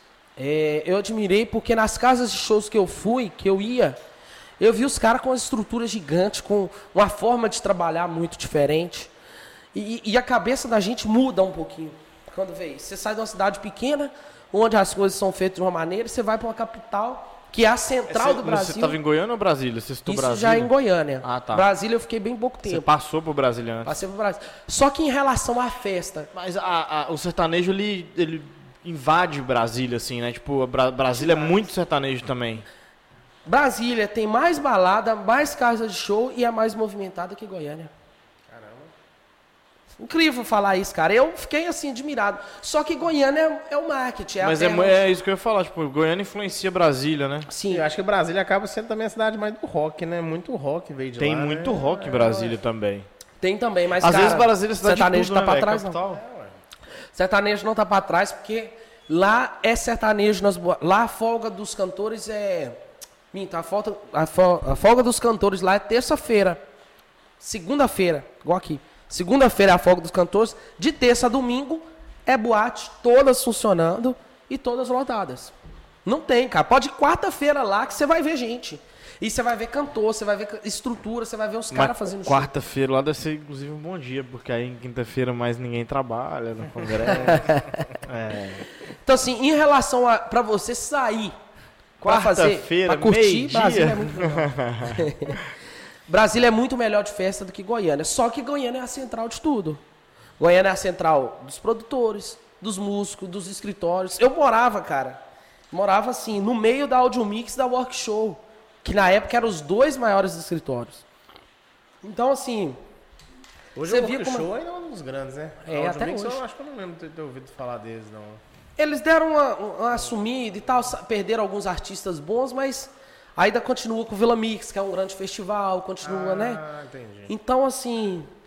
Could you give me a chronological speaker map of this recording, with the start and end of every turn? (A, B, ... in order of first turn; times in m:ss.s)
0:00.4-0:04.0 A
0:04.6-0:09.1 A
0:09.7-0:19.0 A
0:18.1-0:20.7 B
0:20.1-0:22.9 A
0:21.2-0:21.6 B
0:22.7-0:24.0 B
0:23.8-0:26.3 A
0:26.3-0:32.6 B
0:31.2-0:31.6 A
0:33.5-0:37.9 A
0:38.5-0:38.9 C
0:40.0-0:45.0 A
0:44.4-0:47.5 B
0:47.5-0:47.8 A
0:47.7-0:52.6 C
0:51.2-0:53.1 B
0:53.4-0:56.0 A
0:54.0-0:56.2 B
0:56.1-0:56.6 C
0:57.1-1:02.8 A
1:03.3-1:06.6 A
1:07.4-1:15.5 A
1:16.0-1:22.5 A
1:21.7-1:28.6 B
1:27.1-1:27.8 A
1:28.8-1:31.3 A
1:32.0-1:35.3 B
1:32.0-1:35.4 A
1:36.1-1:39.8 A
1:40.4-1:51.0 A
1:52.0-1:52.8 A
1:53.8-1:58.4 C
1:53.8-1:54.5 A
1:55.6-1:56.4 A
1:58.8-2:06.6 A
2:06.0-2:07.3 C
2:07.3-2:08.3 A